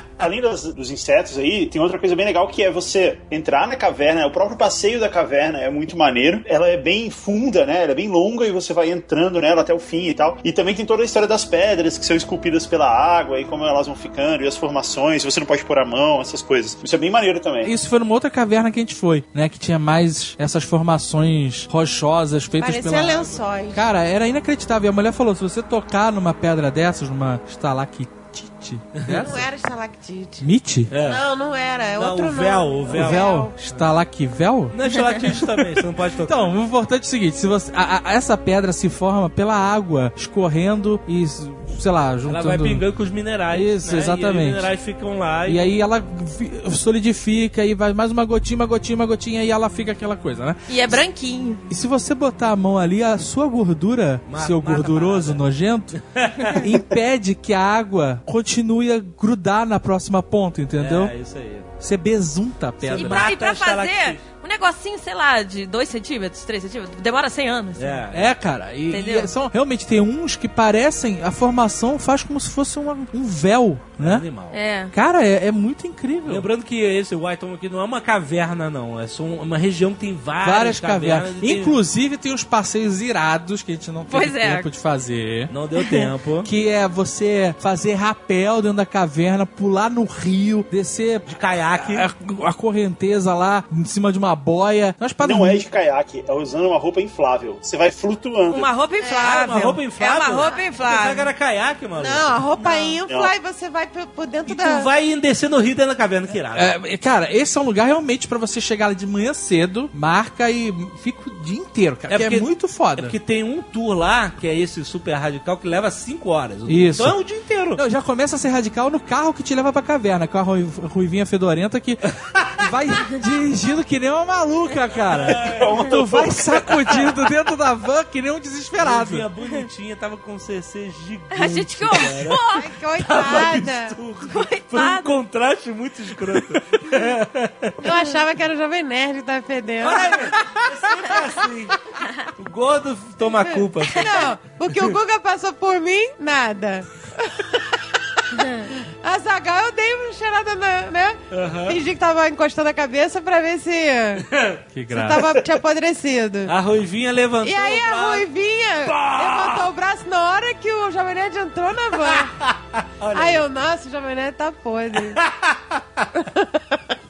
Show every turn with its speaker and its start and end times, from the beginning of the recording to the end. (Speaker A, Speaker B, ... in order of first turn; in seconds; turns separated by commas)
Speaker A: 0.2-17.7, Speaker B: 17.6-29.5, Speaker C: 22.6-23.9, Speaker D: 29.0-29.4, Speaker C: 29.2-30.4, Speaker B: 30.4-30.9, Speaker D: 30.9-31.2, Speaker C: 31.0-33.5, Speaker D: 31.9-33.9, Speaker B: 32.9-34.8, Speaker D: 34.7-36.5, Speaker B: 36.3-42.8, Speaker D: 42.3-45.7, Speaker B: 43.5-44.7, Speaker B: 45.5-50.7, Speaker E: 50.7-51.6, Speaker B: 51.7-56.0, Speaker D: 54.3-55.4, Speaker D: 56.0-56.7, Speaker B: 56.5-61.1, Speaker D: 60.8-61.7, Speaker B: 61.8-63.3, Speaker D: 62.8-64.2, Speaker E: 63.0-68.0, Speaker D: 67.8-68.3, Speaker B: 68.1-74.3, Speaker E: 68.9-69.3, Speaker D: 74.0-74.6, Speaker E: 74.5-74.9, Speaker B: 74.9-76.5, Speaker D: 76.3-81.8, Speaker B: 80.4-85.5, Speaker E: 84.1-84.7, Speaker D: 85.5-86.5, Speaker E: 85.8-86.1, Speaker B: 86.4-91.3, Speaker D: 91.3-92.1, Speaker B: 91.8-95.6, Speaker A: 95.2-98.7, Speaker E: 98.5-101.3, Speaker C: 99.0-99.5, Speaker D: 99.1-103.0, Speaker C: 100.4-100.7, Speaker C: 102.0-104.9, Speaker D: 104.5-106.7, Speaker B: 106.5-113.2, Speaker D: 112.1-117.8, Speaker B: 116.7-117.2, Speaker B: 117.8-129.3, Speaker D: 122.1-122.6, Speaker D: 125.1-125.9, Speaker A: 125.4-126.6, Speaker D: 126.7-127.2, Speaker D: 128.8-132.4, Speaker E: 131.3-132.7, Speaker C: 132.5-134.0, Speaker D: 133.0-137.9, Speaker E: 134.2-135.2, Speaker C: 137.8-140.4, Speaker D: 139.8-141.8, Speaker D: 142.4-144.9, Speaker C: 143.4-147.7, Speaker C: 148.3-154.3, Speaker D: 151.3-151.8, Speaker D: 154.3-154.6, Speaker B: 154.7-155.3, Speaker C: 154.9-156.5, Speaker D: 156.5-158.3, Speaker C: 157.4-162.3, Speaker D: 158.9-159.7, Speaker D: 162.0-163.4, Speaker C: 163.1-165.2, Speaker D: 164.9-166.1, Speaker C: 166.2-166.5